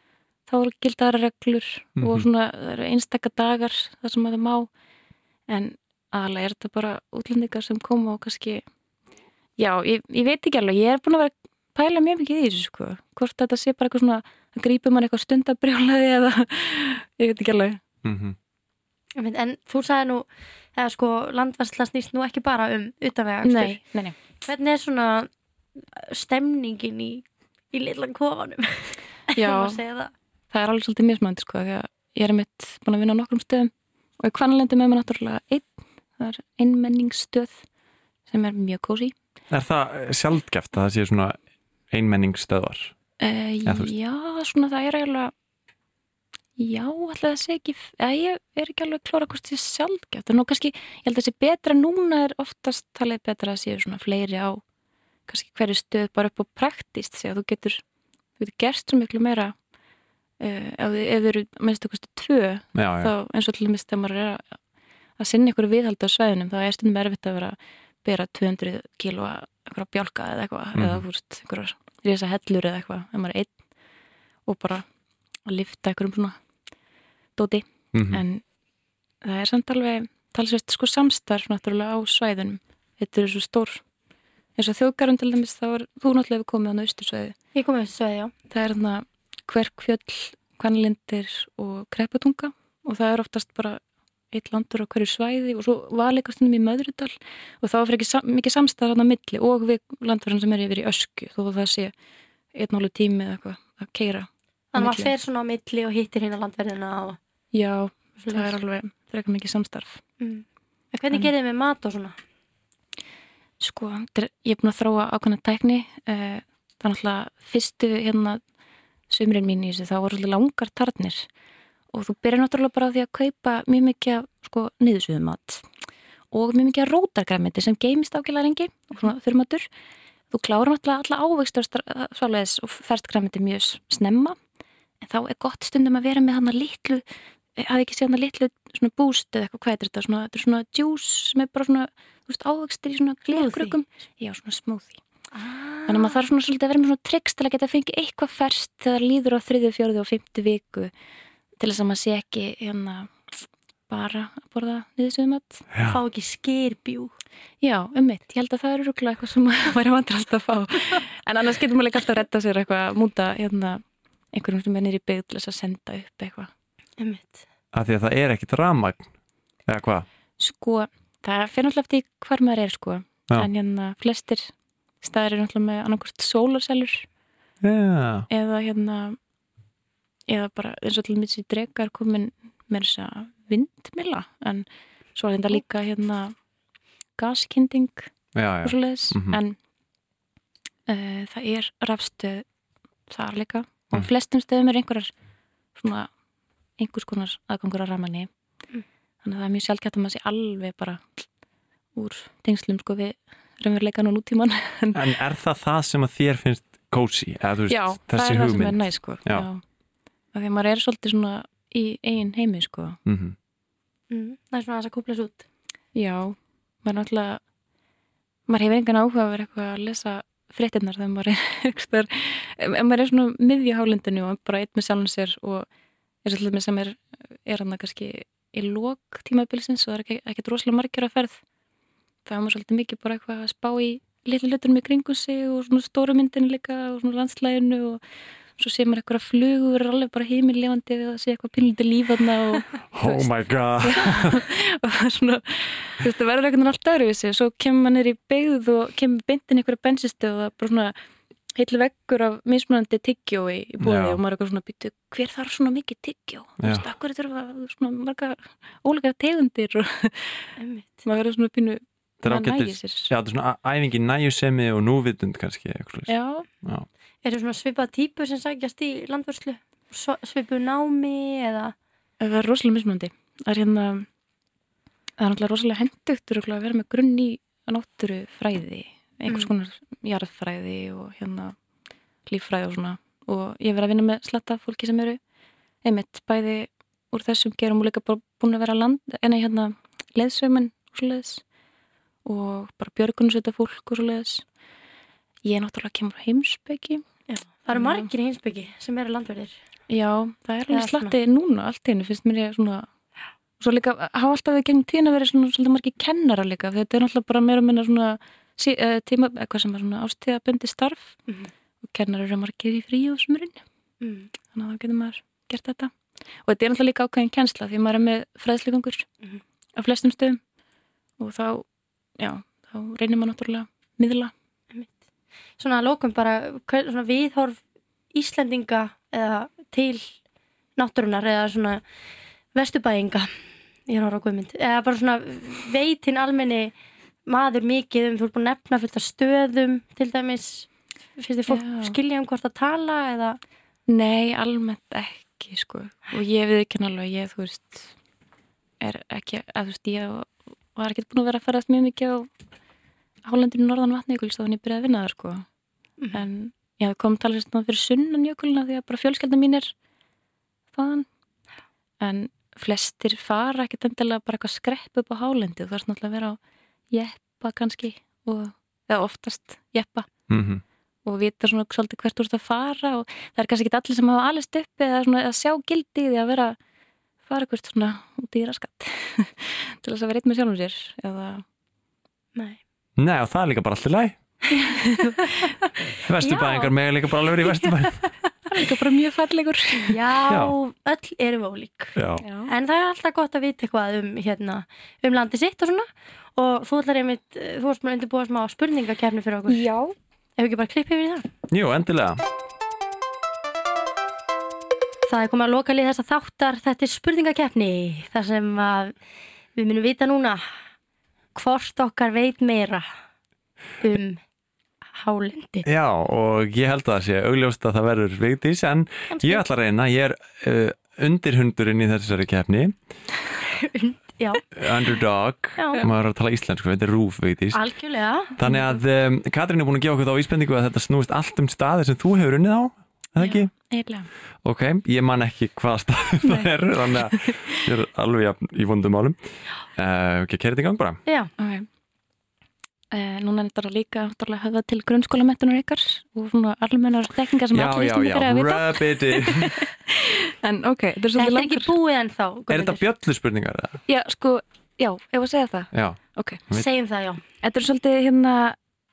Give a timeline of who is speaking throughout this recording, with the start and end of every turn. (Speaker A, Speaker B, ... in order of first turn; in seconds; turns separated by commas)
Speaker A: 0.5-4.7, Speaker B: 2.0-2.3, Speaker A: 5.5-8.6, Speaker A: 9.6-17.8, Speaker B: 18.0-18.4, Speaker C: 19.1-23.8, Speaker A: 23.4-24.1, Speaker C: 24.4-25.3, Speaker C: 25.9-30.1, Speaker A: 29.4-29.8, Speaker A: 30.5-37.6, Speaker A: 38.3-39.1, Speaker B: 39.5-41.4, Speaker B: 41.9-42.9, Speaker A: 43.2-45.3, Speaker B: 43.6-43.9, Speaker A: 46.6-54.6, Speaker A: 55.3-57.8, Speaker A: 58.4-59.5, Speaker A: 60.4-64.5, Speaker B: 62.7-63.1, Speaker A: 65.2-73.5, Speaker B: 70.7-71.0, Speaker A: 74.5-74.8, Speaker A: 75.5-76.3, Speaker A: 77.3-78.4, Speaker B: 77.9-78.2, Speaker A: 79.2-83.8, Speaker A: 84.6-87.3, Speaker C: 87.5-88.3, Speaker A: 88.5-93.8, Speaker A: 94.3-101.9, Speaker A: 102.5-105.1, Speaker C: 104.7-107.2, Speaker A: 107.5-110.0, Speaker C: 108.2-108.5, Speaker C: 110.2-112.2, Speaker A: 113.6-118.4, Speaker A: 119.1-121.2, Speaker A: 121.9-125.6, Speaker A: 126.3-129.7, Speaker A: 130.3-134.4, Speaker A: 135.0-137.0, Speaker A: 137.6-145.0, Speaker C: 143.3-143.7, Speaker C: 145.3-146.2, Speaker A: 145.8-150.9, Speaker A: 151.6-153.3, Speaker A: 153.9-155.7, Speaker B: 155.7-156.0, Speaker C: 155.8-157.1, Speaker A: 157.6-163.8, Speaker A: 164.3-166.5, Speaker C: 167.0-167.4, Speaker B: 167.7-169.1, Speaker B: 169.7-170.1, Speaker A: 170.4-177.1, Speaker B: 177.6-178.3, Speaker A: 178.3-179.2, Speaker A: 180.3-186.3, Speaker A: 187.2-188.1, Speaker B: 188.3-189.4, Speaker A: 188.6-189.6, Speaker A: 190.9-192.4, Speaker A: 193.1-195.1, Speaker A: 195.8-196.1, Speaker A: 196.8-198.3, Speaker A: 199.2-201.2, Speaker A: 201.9-205.0, Speaker B: 204.9-209.5, Speaker A: 207.7-209.6, Speaker A: 210.3-213.0, Speaker B: 213.1-213.3, Speaker C: 214.1-215.4, Speaker A: 215.9-217.4, Speaker A: 218.5-225.7, Speaker A: 226.2-231.4, Speaker A: 232.2-238.0, Speaker A: 238.6-243.3, Speaker B: 242.9-244.4, Speaker A: 243.8-250.9, Speaker A: 251.6-260.5, Speaker B: 253.8-254.2, Speaker B: 256.6-256.9, Speaker C: 260.6-260.9, Speaker A: 261.0-263.1, Speaker B: 262.2-266.9, Speaker A: 266.1-266.5, Speaker C: 267.2-271.7, Speaker A: 272.2-274.1, Speaker A: 275.2-281.5, Speaker A: 282.3-285.2, Speaker A: 285.8-291.4, Speaker A: 292.2-294.4, Speaker A: 295.4-297.0, Speaker C: 297.3-299.6, Speaker A: 297.7-298.1, Speaker A: 299.9-302.9, Speaker C: 300.7-301.1, Speaker A: 303.6-311.2, Speaker A: 311.8-313.6, Speaker C: 314.0-314.3, Speaker A: 314.5-315.9, Speaker A: 316.4-319.1, Speaker A: 319.8-320.4, Speaker A: 321.2-321.6, Speaker A: 322.2-324.3, Speaker C: 325.6-327.6, Speaker C: 328.1-330.1, Speaker C: 330.8-331.8, Speaker C: 332.5-333.3, Speaker C: 333.9-336.7, Speaker C: 337.2-343.4, Speaker A: 341.5-341.9, Speaker A: 343.9-347.9, Speaker A: 348.8-352.3, Speaker A: 353.2-355.4, Speaker A: 356.1-359.7, Speaker A: 360.7-361.1, Speaker A: 362.0-366.4, Speaker A: 366.9-370.1, Speaker B: 370.3-370.6, Speaker A: 371.0-376.6, Speaker A: 377.2-381.4, Speaker B: 383.0-384.1, Speaker A: 384.5-385.7, Speaker C: 385.0-385.4, Speaker B: 386.0-388.0, Speaker C: 386.2-386.7, Speaker A: 388.5-390.0, Speaker C: 389.8-391.9, Speaker B: 390.3-390.5, Speaker B: 391.9-392.2, Speaker A: 392.2-392.5, Speaker C: 392.5-399.7, Speaker A: 399.5-399.9, Speaker C: 400.4-401.2, Speaker B: 401.5-402.2, Speaker C: 405.1-408.9, Speaker C: 409.6-410.4, Speaker C: 411.3-412.9, Speaker C: 413.8-414.2, Speaker C: 414.9-415.7, Speaker B: 415.6-422.7, Speaker C: 419.1-419.4, Speaker C: 423.5-424.4, Speaker B: 424.5-427.6, Speaker C: 425.6-425.8, Speaker C: 427.5-428.3, Speaker B: 428.4-433.5, Speaker A: 433.2-434.1, Speaker B: 434.4-439.2, Speaker A: 436.2-436.5, Speaker B: 439.7-441.0, Speaker C: 441.1-441.3, Speaker A: 441.4-441.6, Speaker A: 442.9-451.7, Speaker B: 447.5-449.6, Speaker C: 451.1-452.8, Speaker B: 452.5-453.8, Speaker A: 453.9-456.4, Speaker B: 455.7-456.6, Speaker C: 456.5-457.2, Speaker A: 457.4-458.6